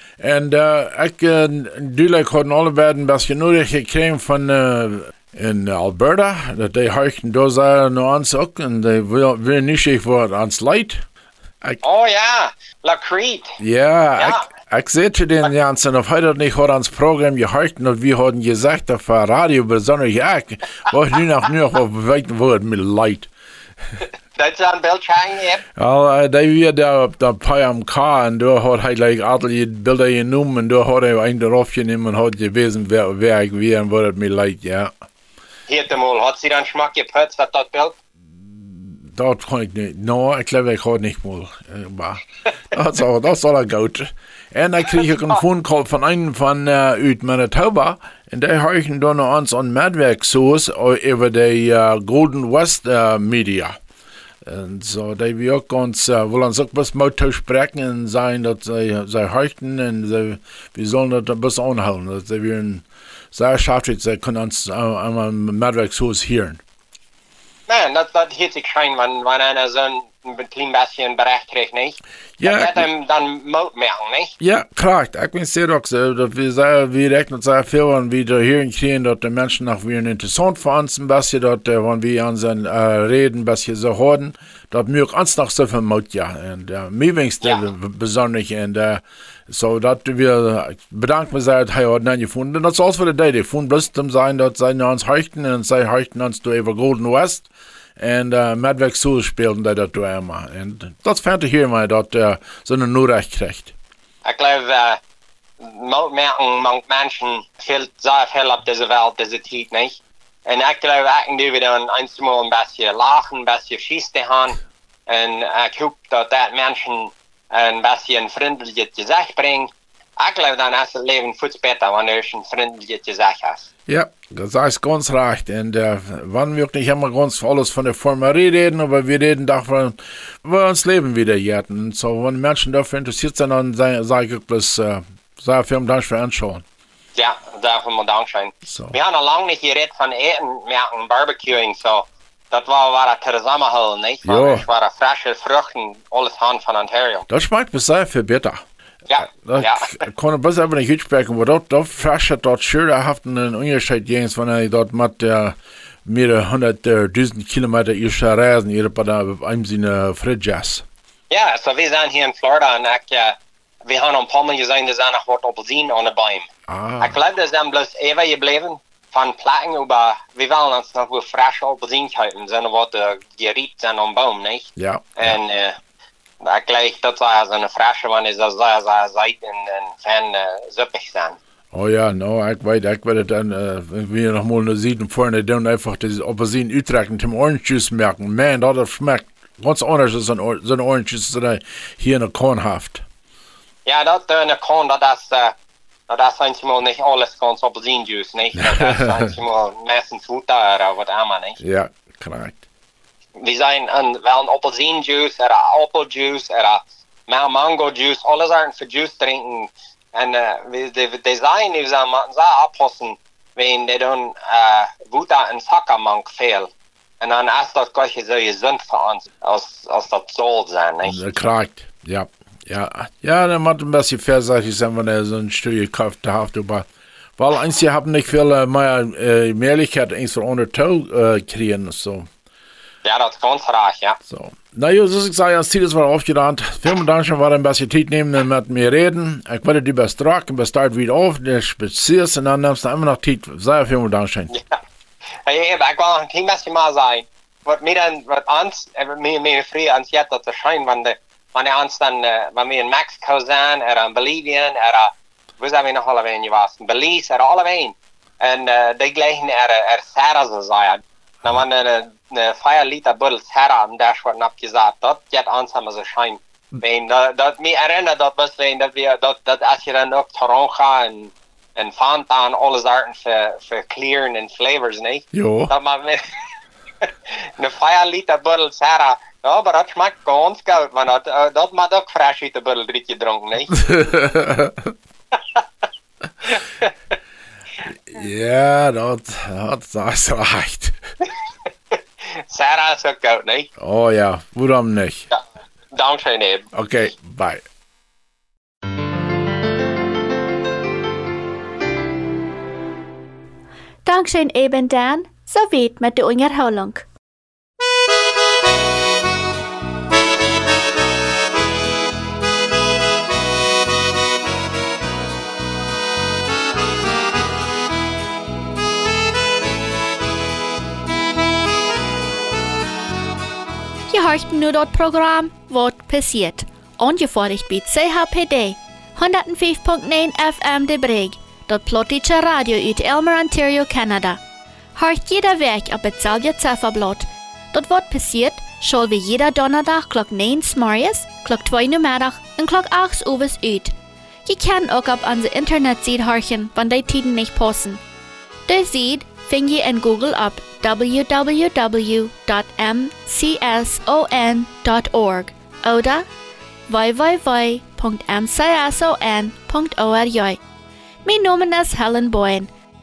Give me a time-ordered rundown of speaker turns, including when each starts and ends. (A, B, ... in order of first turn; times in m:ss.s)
0:00.2-0:11.0 A
0:11.8-0:13.6 B
0:13.6-0:23.3 A
0:14.2-0:14.4 B
0:24.4-0:25.6 B
0:25.8-0:34.9 A
0:35.7-0:38.0 B
0:38.5-0:53.8 A
0:54.4-1:06.6 A
1:07.7-1:14.3 B
1:12.4-1:12.8 A
1:14.4-1:37.5 A
1:38.0-1:43.7 A
1:44.2-1:45.0 B
1:45.6-2:03.7 B
2:03.9-2:16.6 A
2:17.2-2:27.3 B
2:18.6-2:18.9 A
2:24.2-2:24.6 A
2:27.3-2:28.6 A
2:29.1-2:30.0 B
2:29.2-2:40.8 A
2:41.3-2:46.4 B
2:46.7-2:47.2 A
2:47.0-2:55.8 B
2:54.8-2:55.4 A
2:56.4-3:01.4 B
3:01.7-3:13.0 A
3:13.8-3:15.5 B
3:16.1-3:21.6 B
3:18.6-3:19.3 A
3:21.6-3:22.6 A
3:23.4-3:41.2 B
3:41.0-3:46.9 A
3:47.4-3:52.3 A
3:53.0-3:54.2 B
3:54.2-4:04.6 A
4:04.5-4:04.8 B
4:05.4-4:36.2 B
4:35.3-4:35.7 A
4:37.0-4:43.8 B
4:43.7-4:44.9 A
4:45.3-4:45.6 B
4:46.4-4:46.9 B
4:48.0-4:51.0 A
4:51.9-4:53.7 B
4:53.8-4:55.3 A
4:55.3-4:56.7 B
4:56.7-4:57.6 A
5:04.0-5:07.0 C
5:24.1-5:34.4 C
5:34.9-5:43.9 C
5:44.4-5:48.0 C
5:48.7-5:56.2 C
5:56.9-6:00.6 C
6:01.2-6:02.7 C